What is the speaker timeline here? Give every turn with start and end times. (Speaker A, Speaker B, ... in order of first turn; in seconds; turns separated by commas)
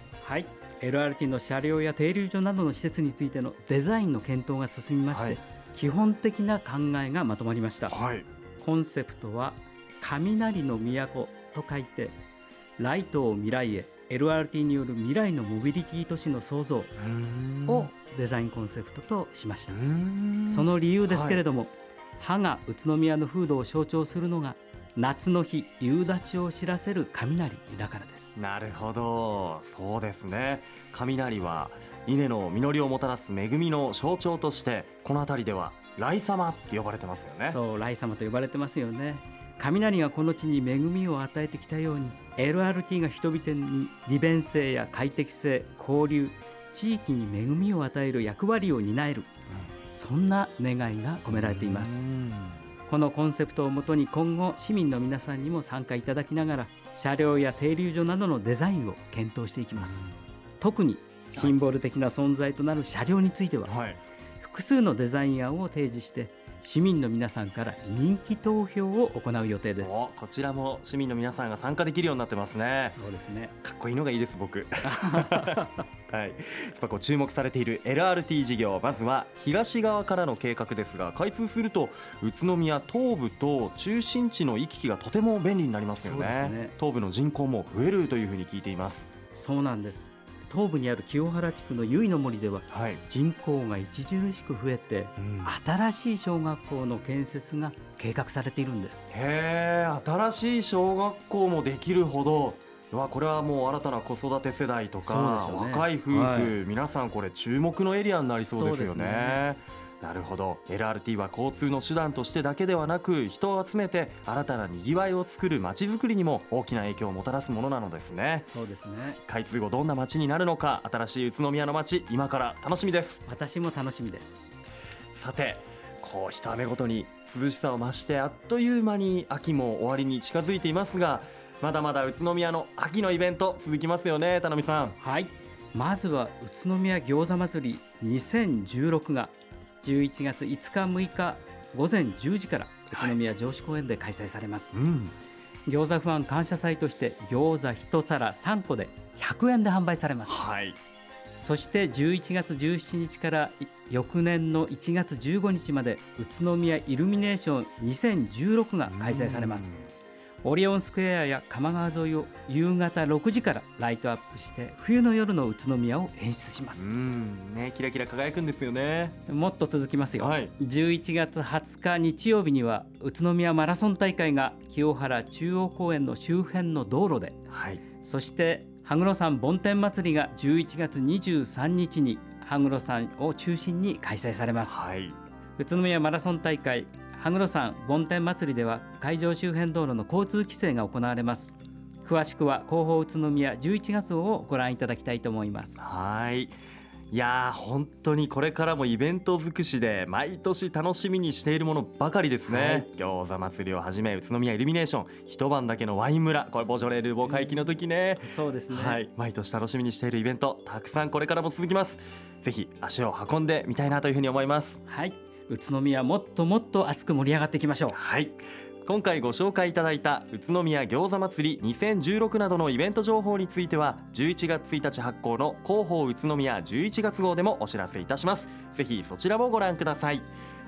Speaker A: 0.2-8.0, Speaker B: 5.1-5.4, Speaker B: 7.9-8.2, Speaker A: 8.6-12.2, Speaker A: 12.8-16.9, Speaker B: 17.0-17.9, Speaker A: 17.7-19.8, Speaker B: 19.7-21.4, Speaker A: 20.5-28.3, Speaker B: 28.4-37.6, Speaker A: 37.4-49.3, Speaker A: 49.9-52.0, Speaker B: 51.3-52.6, Speaker A: 52.9-60.0, Speaker B: 59.7-60.1, Speaker A: 60.6-63.7, Speaker B: 63.7-64.0, Speaker A: 64.4-70.0, Speaker B: 69.8-72.9, Speaker A: 72.9-73.5, Speaker B: 73.6-89.1, Speaker A: 74.8-75.8, Speaker A: 86.0-86.7, Speaker A: 89.3-99.1, Speaker B: 92.7-93.0, Speaker B: 95.2-95.5, Speaker B: 99.1-118.5, Speaker A: 105.0-106.5, Speaker A: 108.5-109.4, Speaker A: 118.4-119.2, Speaker B: 119.2-123.2, Speaker A: 123.3-124.4, Speaker B: 125.2-135.0, Speaker A: 135.0-144.8, Speaker B: 142.9-143.2, Speaker B: 144.7-145.1, Speaker A: 145.7-150.4, Speaker B: 150.3-150.8, Speaker A: 151.3-159.7, Speaker B: 158.9-159.9, Speaker A: 160.4-166.9, Speaker B: 166.8-169.2, Speaker A: 169.3-177.4, Speaker B: 170.2-170.5, Speaker B: 177.5-177.8, Speaker A: 178.0-184.8, Speaker B: 184.7-185.2, Speaker A: 185.6-195.8, Speaker B: 195.8-196.5, Speaker B: 197.1-214.8, Speaker A: 202.5-202.8, Speaker A: 207.2-207.6, Speaker A: 208.2-209.0, Speaker A: 214.9-218.0, Speaker B: 217.9-230.3